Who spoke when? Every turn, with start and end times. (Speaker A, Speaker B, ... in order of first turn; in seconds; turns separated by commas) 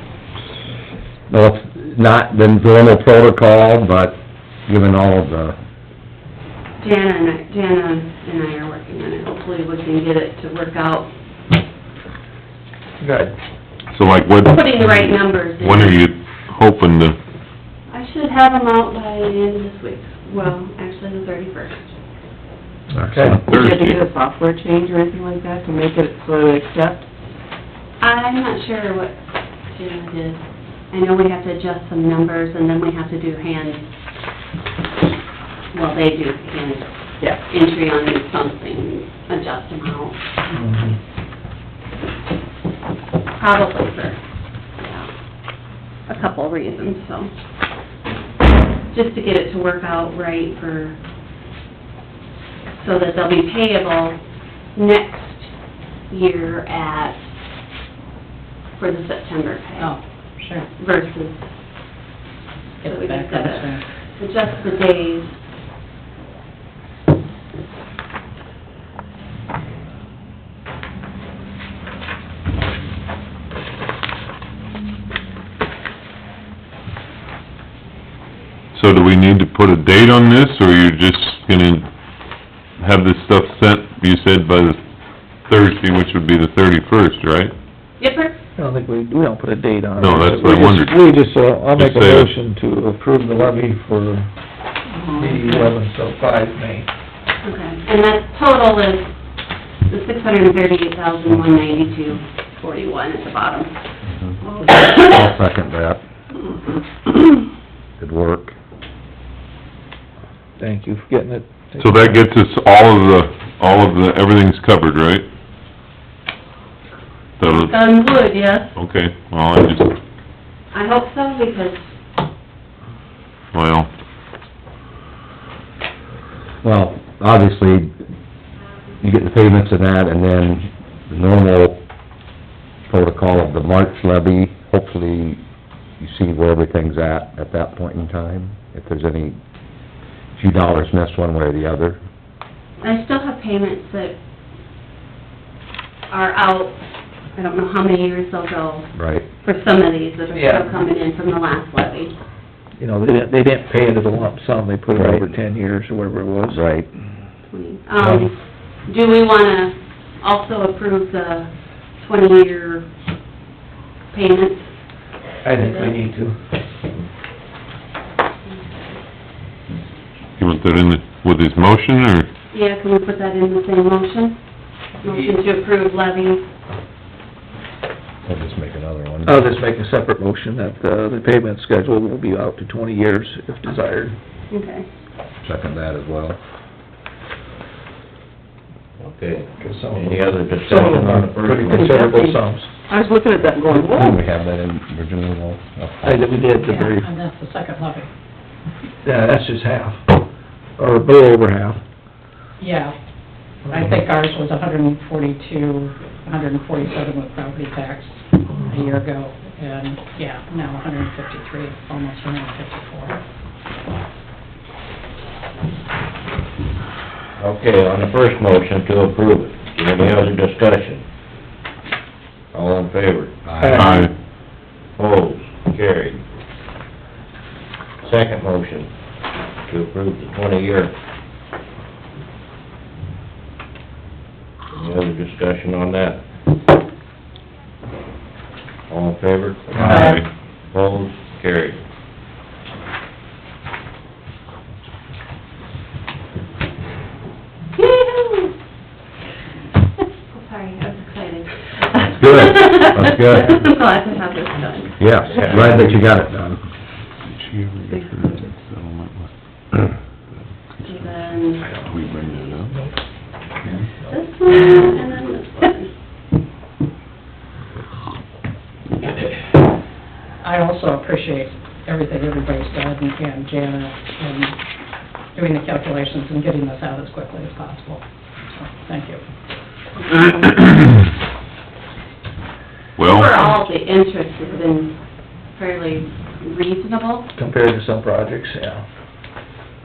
Speaker A: 1.3-5.6, Speaker B: 6.8-11.1, Speaker C: 13.0-13.3, Speaker D: 13.9-17.2, Speaker B: 14.4-16.0, Speaker B: 17.9-21.9, Speaker C: 22.9-23.5, Speaker A: 23.1-23.4, Speaker D: 23.4-24.0, Speaker E: 23.5-27.0, Speaker B: 28.0-29.2, Speaker B: 29.7-33.9, Speaker B: 35.7-36.9, Speaker B: 37.5-40.2, Speaker C: 40.5-41.0, Speaker B: 43.4-44.2, Speaker B: 44.8-45.1, Speaker B: 46.1-47.3, Speaker B: 48.9-51.0, Speaker B: 52.8-54.2, Speaker B: 54.8-55.5, Speaker B: 56.1-57.2, Speaker B: 58.8-60.0, Speaker F: 59.8-60.7, Speaker B: 60.8-61.4, Speaker F: 62.8-63.8, Speaker B: 62.9-65.3, Speaker D: 78.7-81.9, Speaker D: 82.8-84.8, Speaker D: 85.5-87.5, Speaker B: 88.0-88.4, Speaker C: 88.6-94.3, Speaker D: 90.0-91.0, Speaker D: 91.8-92.3, Speaker C: 95.1-96.9, Speaker B: 97.4-99.1, Speaker B: 99.9-103.7, Speaker A: 104.1-106.0, Speaker B: 104.7-105.0, Speaker A: 108.0-108.5, Speaker C: 110.6-112.2, Speaker D: 111.8-115.3, Speaker D: 117.4-117.8, Speaker B: 117.5-118.7, Speaker D: 118.8-120.0, Speaker B: 120.7-121.9, Speaker D: 123.5-123.9, Speaker A: 126.6-127.9, Speaker A: 129.0-131.8, Speaker A: 132.9-135.4, Speaker A: 136.0-139.4, Speaker A: 140.4-142.0, Speaker B: 142.8-144.2, Speaker B: 146.1-146.8, Speaker B: 147.3-152.2, Speaker A: 148.9-149.3, Speaker C: 150.3-150.7, Speaker C: 152.8-156.6, Speaker A: 154.9-155.3, Speaker A: 156.5-156.9, Speaker B: 157.5-158.3, Speaker C: 158.0-158.3, Speaker B: 158.9-162.9, Speaker B: 164.1-164.7, Speaker C: 165.4-166.4, Speaker B: 168.5-168.9, Speaker D: 170.4-172.3, Speaker B: 172.5-174.4, Speaker B: 175.0-176.4, Speaker A: 178.2-179.4, Speaker C: 179.2-184.2, Speaker B: 184.5-184.9, Speaker A: 185.4-186.4, Speaker G: 189.0-192.0, Speaker C: 189.6-192.7, Speaker B: 191.8-192.4, Speaker E: 193.1-194.2, Speaker A: 193.6-196.3, Speaker C: 196.0-197.1, Speaker F: 196.6-198.1, Speaker C: 199.0-200.1, Speaker C: 200.8-201.8, Speaker F: 202.6-202.9, Speaker F: 203.7-213.2, Speaker C: 203.7-204.0, Speaker G: 217.4-221.0, Speaker G: 222.5-223.4, Speaker A: 223.5-223.8, Speaker C: 223.6-224.0, Speaker D: 223.7-224.1, Speaker G: 225.0-226.2, Speaker G: 228.0-228.9, Speaker G: 229.7-230.9, Speaker G: 234.7-236.2, Speaker G: 238.9-240.1, Speaker C: 239.7-240.1, Speaker D: 239.8-240.2, Speaker F: 239.9-240.2, Speaker G: 240.7-241.8, Speaker B: 247.8-248.5, Speaker B: 250.3-255.1, Speaker A: 252.0-253.6, Speaker A: 255.0-256.6, Speaker G: 255.3-256.0, Speaker D: 257.3-259.9, Speaker D: 260.8-261.1, Speaker B: 260.9-262.3, Speaker D: 261.8-262.7, Speaker B: 264.0-265.9, Speaker F: 270.4-274.6, Speaker F: 275.4-279.2, Speaker D: 283.0-283.4, Speaker B: 283.0-285.0, Speaker B: 285.6-287.3, Speaker C: 287.4-288.9